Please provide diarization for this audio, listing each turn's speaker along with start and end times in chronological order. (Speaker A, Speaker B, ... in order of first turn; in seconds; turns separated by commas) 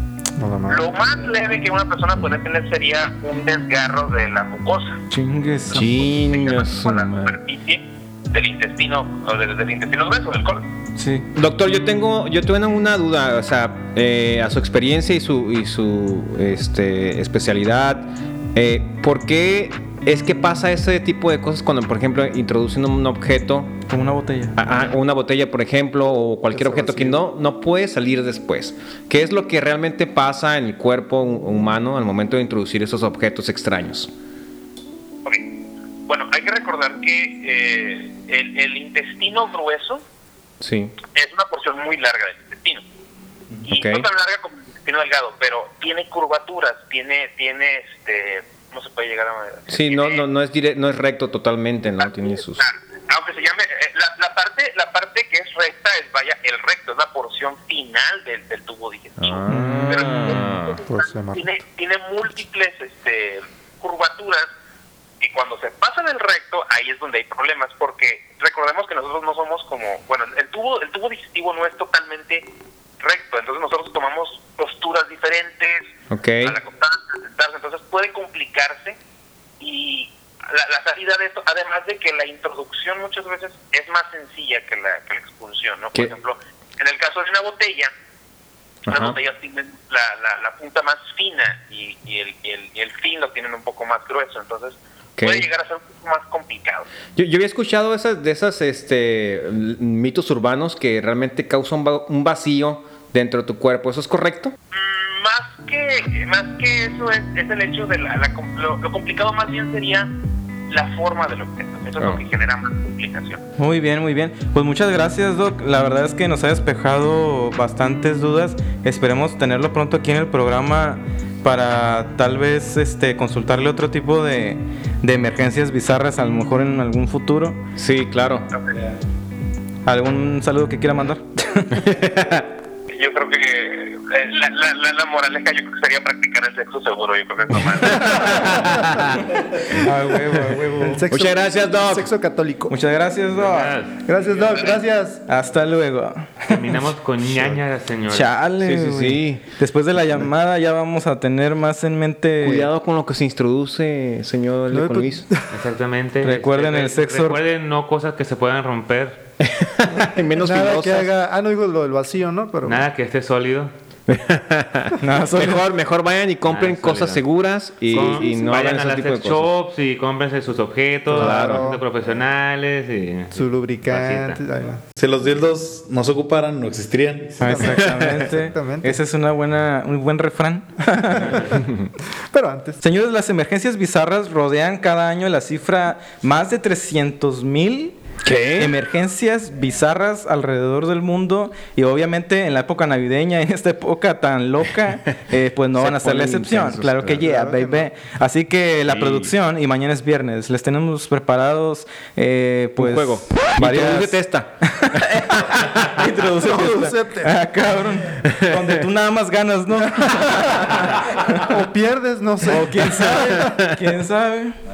Speaker A: 0.4-0.9, Speaker B: 0.7-5.0, Speaker C: 5.1-5.9, Speaker B: 5.7-10.7, Speaker D: 5.7-7.4, Speaker C: 11.0-11.3, Speaker D: 11.3-23.8, Speaker C: 23.9-24.6, Speaker D: 24.6-34.1, Speaker A: 26.6-26.9, Speaker C: 26.6-27.2, Speaker B: 35.2-35.5, Speaker B: 36.1-40.0, Speaker D: 40.6-41.0, Speaker B: 41.1-42.8, Speaker B: 43.6-50.3, Speaker D: 43.7-44.1, Speaker D: 49.7-52.7, Speaker B: 52.0-64.5, Speaker D: 59.2-60.8, Speaker C: 59.5-60.3, Speaker A: 60.9-61.5, Speaker B: 65.2-72.5, Speaker B: 73.0-79.0, Speaker D: 76.1-76.6, Speaker B: 79.6-87.9, Speaker B: 88.8-96.9, Speaker D: 88.9-89.2, Speaker D: 95.2-95.5, Speaker D: 97.2-104.5, Speaker B: 104.7-110.1, Speaker B: 110.7-113.4, Speaker C: 113.6-127.6, Speaker D: 127.8-128.5, Speaker C: 129.9-131.8, Speaker D: 131.8-132.5, Speaker B: 132.9-138.4, Speaker D: 137.6-139.3, Speaker A: 138.5-139.0, Speaker C: 139.8-141.0, Speaker A: 140.4-142.8, Speaker D: 141.1-142.1, Speaker C: 142.7-143.8, Speaker E: 143.3-144.0, Speaker A: 144.1-145.2, Speaker C: 145.3-146.8, Speaker E: 146.5-148.4, Speaker C: 148.1-152.7, Speaker D: 148.6-149.4, Speaker D: 152.4-155.3, Speaker A: 154.7-155.5, Speaker E: 155.5-159.2, Speaker C: 156.2-157.4, Speaker D: 159.4-161.1, Speaker A: 160.4-162.9, Speaker E: 162.7-163.7, Speaker D: 164.1-169.5, Speaker C: 165.0-165.6, Speaker E: 166.5-167.2, Speaker E: 167.9-174.4, Speaker D: 171.1-171.7, Speaker A: 171.1-171.8, Speaker A: 173.3-174.8, Speaker F: 175.0-177.5, Speaker A: 177.4-179.0, Speaker C: 177.4-181.5, Speaker D: 177.6-178.1, Speaker A: 181.1-181.5, Speaker A: 182.3-182.8, Speaker C: 182.8-188.0, Speaker D: 188.2-188.7, Speaker C: 188.6-211.4, Speaker D: 195.8-197.3, Speaker A: 197.1-197.9, Speaker D: 202.8-205.0, Speaker D: 205.6-205.9, Speaker A: 206.3-207.3, Speaker D: 208.3-208.7, Speaker A: 211.2-213.7, Speaker C: 212.4-214.6, Speaker D: 213.0-213.7